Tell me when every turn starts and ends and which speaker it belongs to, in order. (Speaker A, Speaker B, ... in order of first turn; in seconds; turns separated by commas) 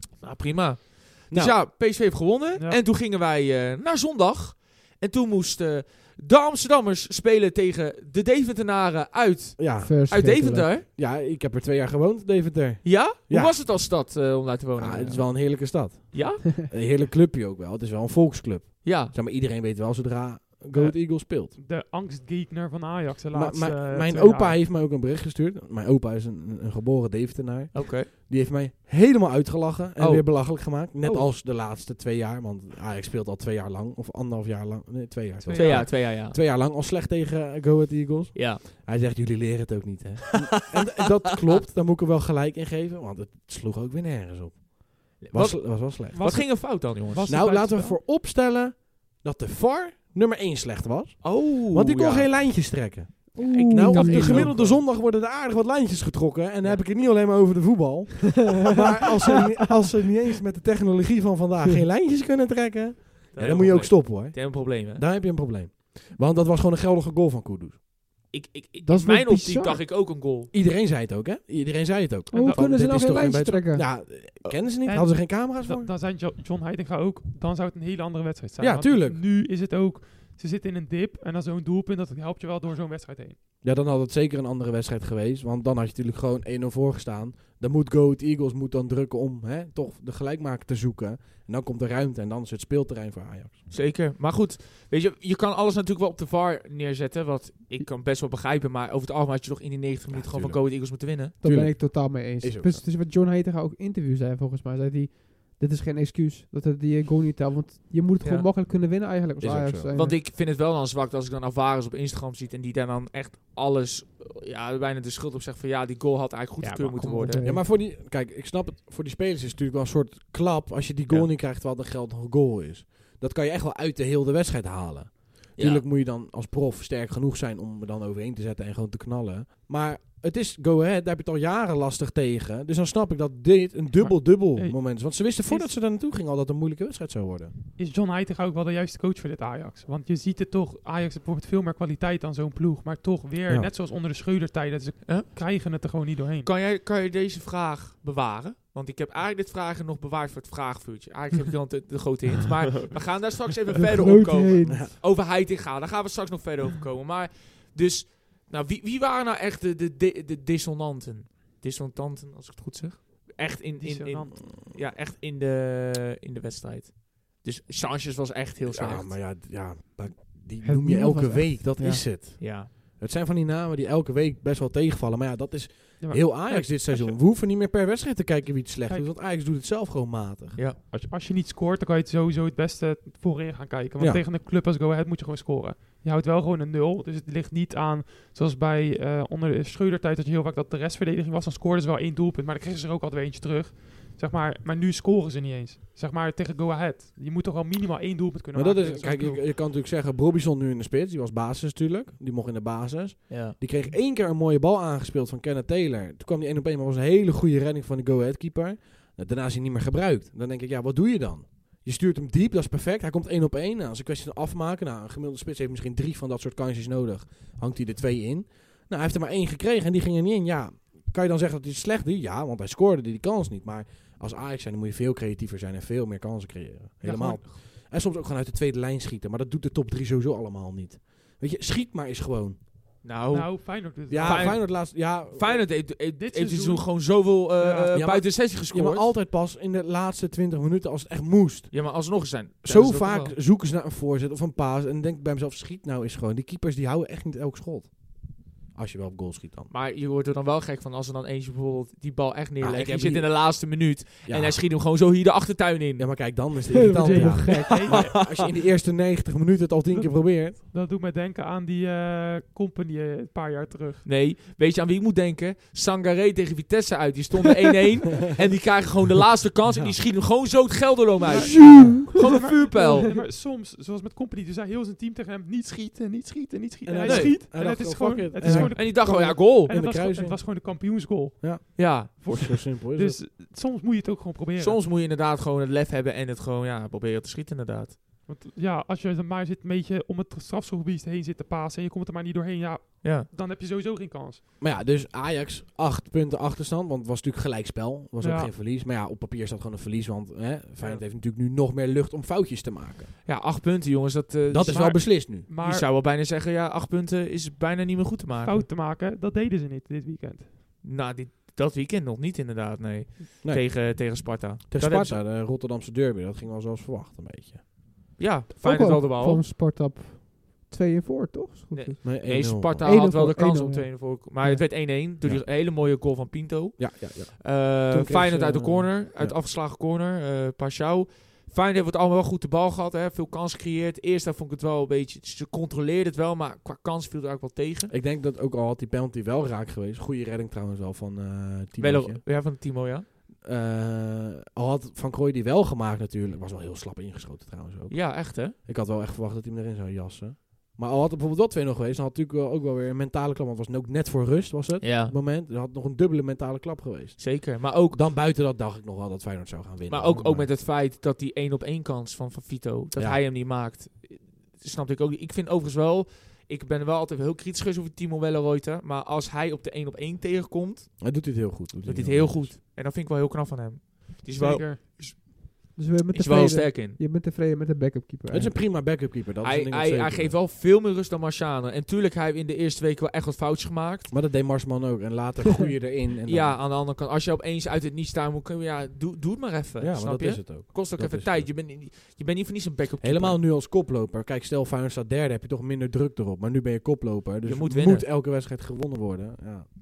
Speaker A: 0.2-10.8, Speaker B: 1.3-1.6, Speaker B: 9.6-13.6, Speaker C: 9.8-10.7, Speaker A: 12.8-16.4, Speaker B: 14.8-21.6, Speaker A: 18.8-19.1, Speaker D: 20.7-24.6, Speaker B: 23.3-46.5, Speaker A: 27.7-28.1, Speaker A: 30.0-30.7, Speaker D: 35.4-35.9, Speaker A: 35.5-36.4, Speaker A: 38.4-38.6, Speaker A: 45.2-47.3, Speaker D: 46.1-48.0, Speaker B: 47.3-67.8, Speaker A: 51.2-52.4, Speaker C: 53.4-54.5, Speaker A: 53.5-54.8, Speaker D: 53.9-54.6, Speaker A: 63.3-65.1, Speaker A: 68.3-70.5, Speaker C: 68.8-69.8, Speaker B: 70.5-75.9, Speaker D: 72.3-72.7, Speaker C: 72.3-73.9, Speaker D: 74.9-83.4, Speaker B: 78.6-79.2, Speaker B: 83.6-93.7, Speaker A: 93.7-101.3, Speaker B: 100.1-102.8, Speaker C: 101.4-110.2, Speaker B: 109.4-109.9, Speaker A: 109.9-117.4, Speaker C: 116.6-117.7, Speaker B: 117.4-137.5, Speaker A: 125.6-125.8, Speaker D: 133.9-135.8, Speaker D: 137.8-146.5, Speaker A: 146.4-169.2, Speaker C: 153.8-154.9, Speaker B: 154.7-154.9, Speaker D: 163.8-164.5, Speaker B: 168.7-180.6, Speaker C: 170.6-172.0, Speaker A: 172.4-172.7, Speaker D: 176.0-177.2, Speaker D: 180.9-199.4, Speaker B: 184.0-184.2, Speaker B: 198.5-232.6, Speaker A: 203.3-203.6, Speaker D: 227.0-227.5, Speaker A: 233.0-239.1, Speaker D: 233.3-234.6, Speaker B: 234.1-235.7, Speaker D: 236.1-237.9, Speaker B: 237.9-242.1, Speaker A: 241.7-243.3, Speaker B: 242.6-249.7, Speaker A: 249.7-256.5, Speaker B: 252.6-254.6, Speaker B: 256.0-260.6, Speaker C: 256.7-258.0, Speaker D: 257.0-258.1, Speaker A: 257.6-258.0, Speaker D: 259.9-264.1, Speaker A: 264.0-273.2, Speaker B: 269.6-270.0, Speaker D: 271.2-284.8, Speaker B: 271.3-272.1, Speaker C: 271.5-273.0, Speaker B: 276.8-280.6, Speaker A: 277.0-277.4, Speaker A: 278.4-279.7, Speaker B: 281.4-283.2, Speaker A: 281.8-282.5, Speaker A: 284.6-288.0, Speaker D: 288.3-294.4, Speaker B: 294.6-303.2, Speaker D: 298.2-298.5, Speaker D: 300.8-301.1, Speaker A: 303.3-308.7, Speaker B: 304.5-305.5, Speaker D: 304.7-305.9, Speaker D: 308.4-310.5, Speaker A: 310.8-315.2, Speaker B: 313.4-317.7, Speaker A: 318.2-319.4, Speaker C: 318.6-324.9, Speaker A: 321.7-337.9, Speaker B: 322.0-323.0, Speaker B: 325.2-325.5, Speaker B: 326.8-329.4, Speaker B: 337.9-342.2, Speaker A: 341.8-343.1, Speaker B: 343.4-360.5, Speaker A: 347.9-348.6, Speaker A: 354.8-355.1, Speaker A: 357.2-358.1, Speaker A: 359.9-371.2, Speaker B: 362.9-363.2, Speaker B: 371.0-372.5, Speaker A: 371.9-375.2, Speaker D: 374.4-375.0, Speaker C: 375.7-378.5, Speaker A: 376.1-377.0, Speaker B: 378.3-380.4, Speaker A: 379.4-384.1, Speaker B: 384.1-386.6, Speaker A: 386.2-393.4, Speaker B: 389.8-391.5, Speaker B: 393.0-399.7, Speaker A: 397.4-398.1